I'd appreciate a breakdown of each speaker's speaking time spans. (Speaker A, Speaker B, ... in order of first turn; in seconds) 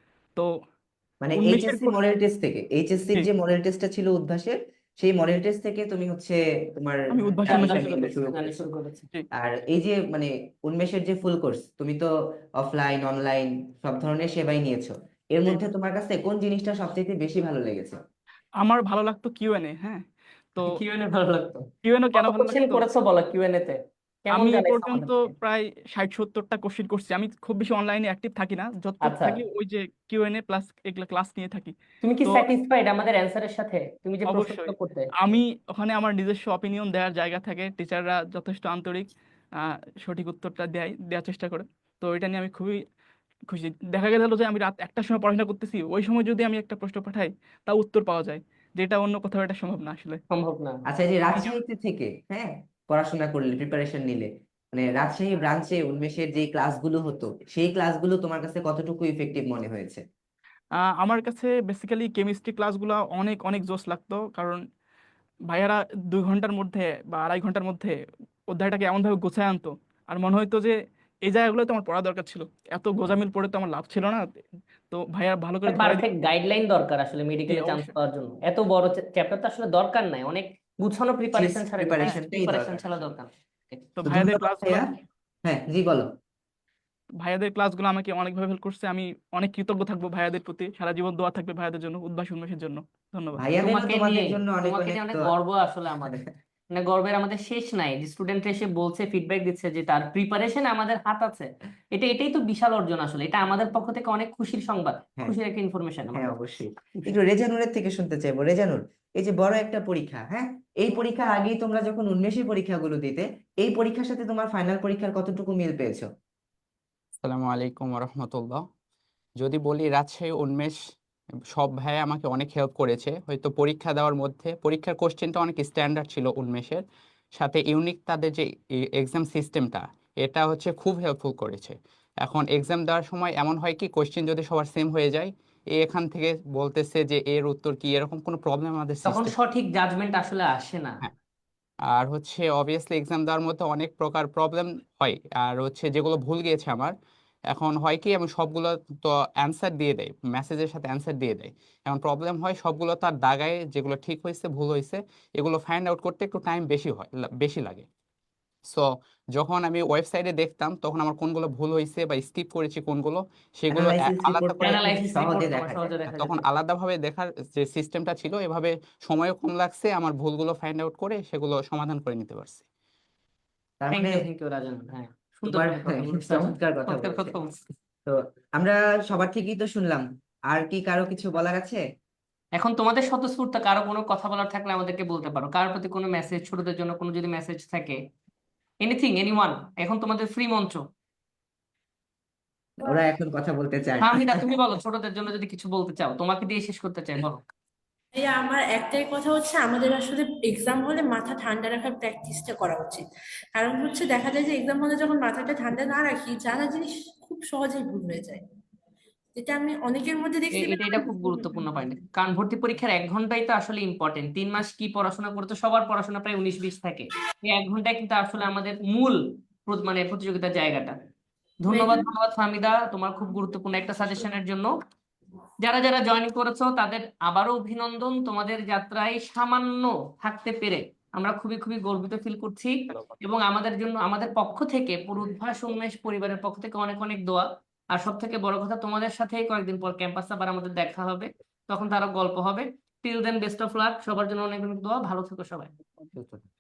Speaker A: 1.2-8.6, 9.4-18.0, 50.9-60.0, 81.3-82.9, 84.1-84.8, 85.5-86.1, 93.4-95.3, 96.0-96.3, 106.1-116.1, 163.7-165.9, 173.8-174.2, 175.5-177.4, 178.1-181.8, 192.8-194.4, 246.2-246.5
Speaker B: 1.4-2.0, 7.1-8.0, 18.6-20.0, 21.8-22.9, 24.4-32.5, 34.3-39.1, 39.6-42.8, 43.5-50.2, 61.0-64.6, 65.5-67.9, 68.5-76.0, 77.5-77.9, 84.0-84.9, 87.2-93.4
Speaker C: 7.5-9.1, 20.6-21.7, 22.2-25.3, 29.0-29.4, 32.0-35.1, 50.3-50.8, 75.7-83.8, 93.6-96.2, 96.7-106.4, 139.1-141.0, 164.6-166.5, 173.9-177.6, 182.6-188.0, 188.8-190.8, 194.0-197.4, 210.5-221.0, 221.6-224.7, 225.6-245.7
Speaker D: 117.2-118.6, 119.4-120.8, 121.5-126.8, 127.4-139.3, 141.9-146.9, 147.5-157.9, 158.7-164.9, 166.1-172.7
Speaker E: 198.2-203.0, 203.6-208.4, 209.4-211.9, 221.7-222.1